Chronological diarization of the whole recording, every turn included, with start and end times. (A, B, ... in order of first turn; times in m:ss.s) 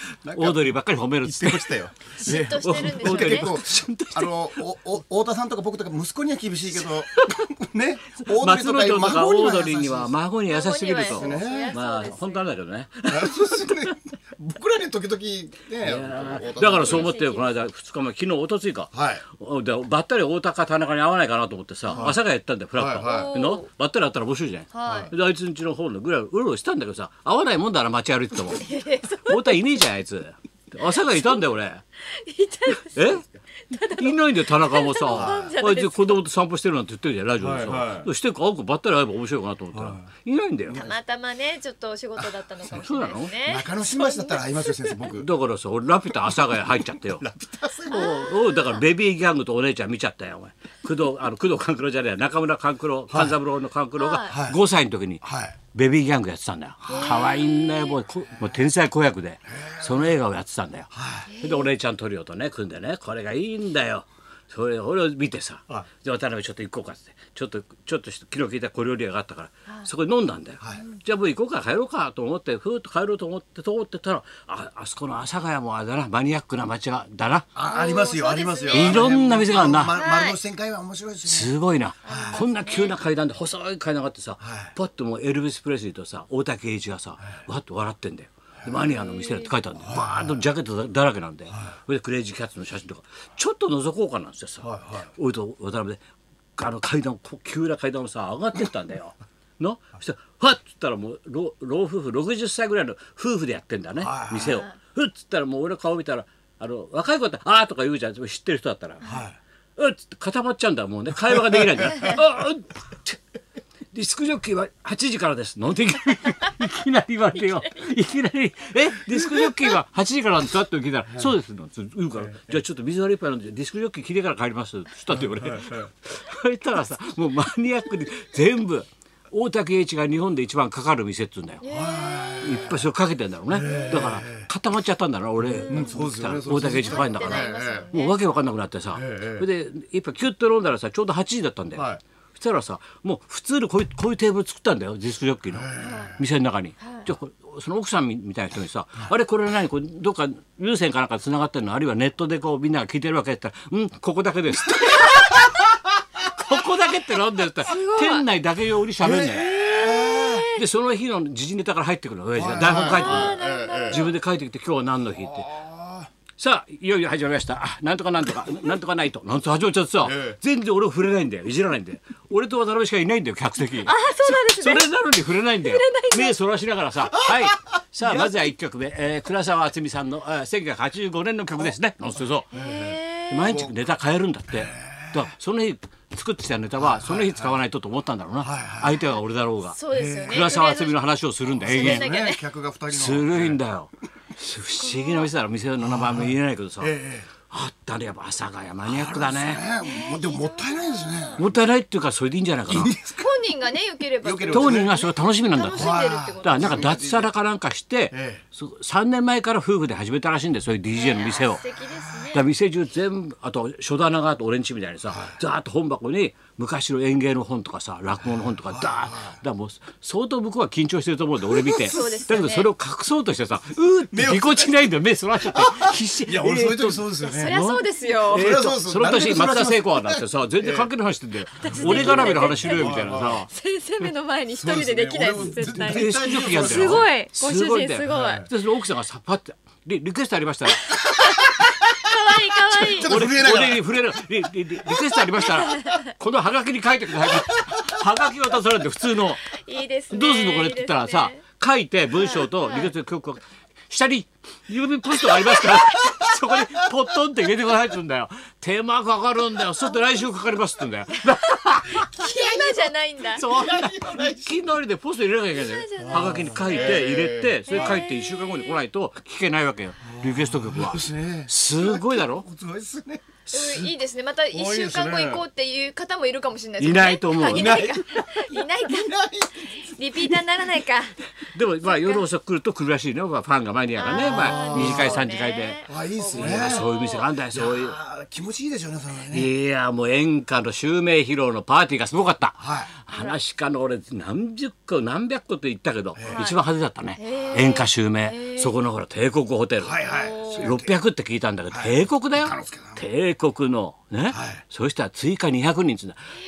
0:00.2-0:10.2 A
0:00.3-0:04.6 B
0:02.2-0:03.5 C
0:07.1-0:07.5 B
0:08.1-0:13.9 B
0:10.5-0:12.5 C
0:11.0-0:11.8 A
0:13.1-0:17.2 A
0:15.8-0:31.8 B
0:16.5-0:17.6 C
0:18.9-0:19.2 A
0:22.0-0:22.2 A
0:22.8-0:23.4 A
0:23.0-0:23.6 C
0:24.7-0:25.1 C
0:24.9-0:25.1 A
0:28.6-0:29.6 C
0:32.1-0:36.2 C
0:32.9-0:33.2 B
0:33.8-0:40.8 B
0:35.1-0:35.5 A
0:37.4-0:38.1 A
0:39.7-0:40.1 A
0:40.7-0:41.0 A
0:40.7-0:44.9 C
0:42.2-0:42.8 A
0:42.7-0:43.4 B
0:43.4-0:45.3 A
0:45.1-0:47.2 B
0:46.1-0:48.2 A
0:47.9-1:17.5 B
0:47.9-0:48.7 C
0:53.1-0:53.4 A
0:54.0-0:54.4 C
0:54.3-0:54.6 A
0:55.2-0:55.6 A
0:56.9-0:57.2 A
0:56.9-0:58.0 C
0:59.6-1:00.0 A
1:00.9-1:01.3 A
1:01.3-1:01.7 C
1:17.6-1:21.5 A
1:17.6-1:20.4 C
1:18.7-1:20.0 B
1:21.2-1:36.0 B
1:22.0-1:23.0 C
1:22.1-1:22.4 A
1:24.4-1:24.7 A
1:28.8-1:29.5 C
1:29.8-1:30.4 A
1:34.6-1:35.1 A
1:36.6-1:49.1 B
1:44.0-1:44.5 A
1:49.0-1:49.4 A
1:49.8-1:53.2 B
1:51.4-1:52.1 A
1:53.9-2:11.6 B
2:02.2-2:02.6 A
2:05.1-2:05.9 A
2:11.6-2:12.7 C
2:11.7-2:12.8 A
2:12.4-2:35.6 B
2:13.5-2:14.5 A
2:15.4-2:17.9 A
2:15.7-2:16.0 C
2:16.8-2:18.2 C
2:18.9-2:19.4 A
2:21.8-2:22.0 A
2:25.5-2:26.1 A
2:25.8-2:26.2 C
2:36.2-2:39.5 B
2:37.7-2:38.2 C
2:39.0-2:40.5 A
2:39.1-2:40.6 C
2:40.5-2:45.4 B
2:42.4-2:44.0 A
2:42.6-2:44.1 C
2:45.2-2:46.1 A
2:46.4-3:02.5 B
2:50.0-2:50.4 A
2:53.8-2:56.4 C
2:57.1-2:58.5 A
3:02.5-3:03.5 C
3:02.5-3:03.7 A
3:03.3-3:12.1 B
3:04.5-3:05.2 A
3:06.8-3:07.6 A
3:08.4-3:09.0 A
3:09.8-3:11.1 C
3:09.9-3:10.6 A
3:11.6-3:12.4 C
3:11.6-3:13.6 A
3:12.9-3:19.6 B
3:14.8-3:15.3 C
3:15.8-3:17.3 A
3:18.8-3:21.4 A
3:19.8-3:21.4 C
3:21.4-3:22.9 B
3:22.7-3:23.3 A
3:23.1-3:27.0 C
3:24.2-3:25.1 A
3:24.5-3:25.9 B
3:25.8-3:27.3 A
3:26.4-3:31.6 B
3:28.1-3:28.4 A
3:30.9-3:32.4 C
3:32.3-3:53.5 B
3:35.1-3:35.4 A
3:38.6-3:39.4 A
3:41.5-3:42.7 C
3:44.1-3:47.6 A
3:47.2-3:48.6 C
3:48.2-3:50.9 A
3:51.6-3:58.5 C
3:51.7-3:53.4 A
3:54.5-3:57.1 A
3:55.7-4:01.0 B
3:58.1-3:58.5 A
4:00.9-4:03.1 C
4:02.8-4:09.5 B
4:02.8-4:04.0 A
4:05.4-4:06.1 C
4:09.4-4:11.4 C
4:10.1-4:22.2 B
4:12.1-4:12.9 C
4:15.4-4:16.9 A
4:21.9-4:23.4 C
4:23.3-4:32.5 B
4:23.4-4:24.6 A
4:25.5-4:27.1 C
4:26.0-4:28.0 A
4:27.7-4:28.8 C
4:30.0-4:33.2 A
4:33.4-4:33.9 B
4:33.5-4:41.2 C
4:34.5-4:35.4 A
4:36.8-4:37.9 B
4:37.4-4:39.8 A
4:41.5-4:48.0 B
4:41.8-4:42.3 C
4:44.0-4:47.3 C
4:44.1-4:45.2 A
4:45.9-4:46.9 A
4:47.5-4:49.5 A
4:49.3-5:06.2 B
4:52.6-4:52.9 A
4:53.1-4:53.4 C
4:56.2-4:56.4 A
4:56.3-4:56.6 C
4:57.2-4:58.7 C
4:59.8-5:01.0 A
5:00.0-5:00.7 C
5:01.7-5:03.0 A
5:04.3-5:04.6 A